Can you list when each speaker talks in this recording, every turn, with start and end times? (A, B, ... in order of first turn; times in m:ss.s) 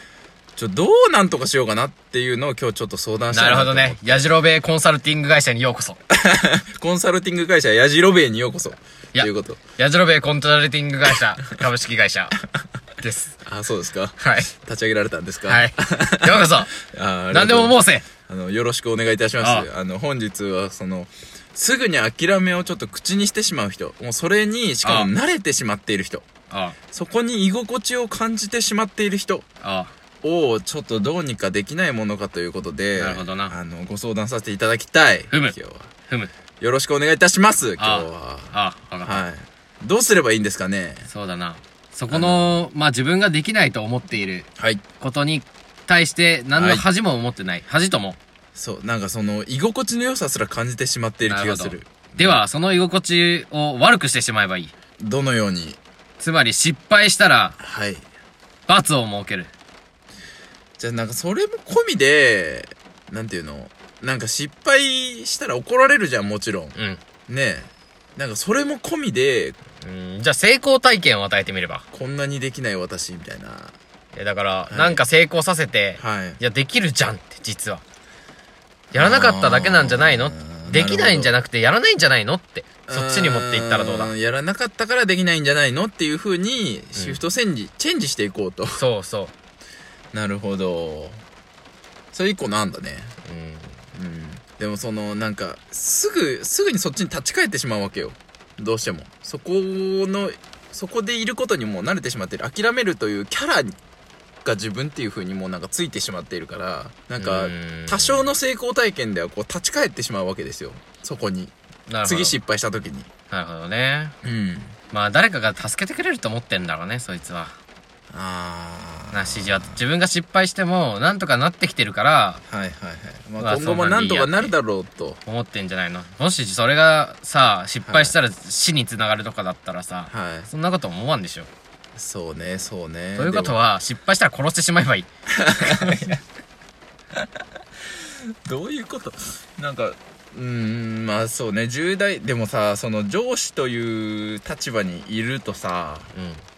0:00.6-0:04.2 A
0:03.3-0:06.0 B
0:06.1-0:09.6 A
0:09.1-0:12.3 B
0:13.0-0:13.4 B
0:13.4-0:26.2 A
0:14.2-0:14.5 B
0:15.4-0:16.7 B
0:17.3-0:18.0 B
0:19.4-0:19.7 B
0:24.8-0:25.1 B
0:26.5-0:26.8 B
0:26.9-0:29.4 A
0:29.6-0:29.9 B
0:30.2-0:35.9 A
0:33.0-0:33.5 B
0:36.6-0:41.1 A
0:37.8-0:39.2 B
0:41.1-0:44.5 B
0:42.1-0:42.6 A
0:44.6-0:44.8 A
0:45.0-0:48.2 B
0:46.6-0:46.8 A
0:48.5-0:52.4 A
0:51.3-0:54.7 B
0:55.0-0:55.8 A
0:56.2-0:57.6 B
0:57.6-0:58.0 A
0:58.7-0:59.5 B
1:00.8-1:06.7 A
1:06.7-1:07.0 B
1:07.3-1:09.6 A
1:09.8-1:11.8 B
1:11.9-1:13.8 A
1:14.1-1:17.8 B
1:14.7-1:15.0 A
1:16.0-1:16.4 A
1:18.9-1:24.1 B
1:18.9-1:21.4 A
1:22.9-1:28.8 A
1:27.0-1:27.2 B
1:28.8-1:29.3 B
1:30.1-1:31.2 A
1:32.1-1:33.1 A
1:33.2-1:33.8 B
1:33.9-1:43.8 A
1:44.4-1:51.5 A
1:47.2-1:48.3 B
1:51.9-1:52.4 B
1:52.0-1:53.1 A
1:53.3-1:54.1 B
1:54.2-1:54.8 A
1:54.9-1:57.6 B
1:58.1-1:59.8 A
1:59.1-2:02.4 B
2:02.5-2:05.2 A
2:03.4-2:04.5 B
2:05.2-2:11.5 B
2:07.8-2:08.2 A
2:10.1-2:10.5 A
2:12.0-2:13.6 A
2:13.2-2:16.1 B
2:15.4-2:16.2 A
2:18.4-2:26.1 A
2:26.1-2:26.4 B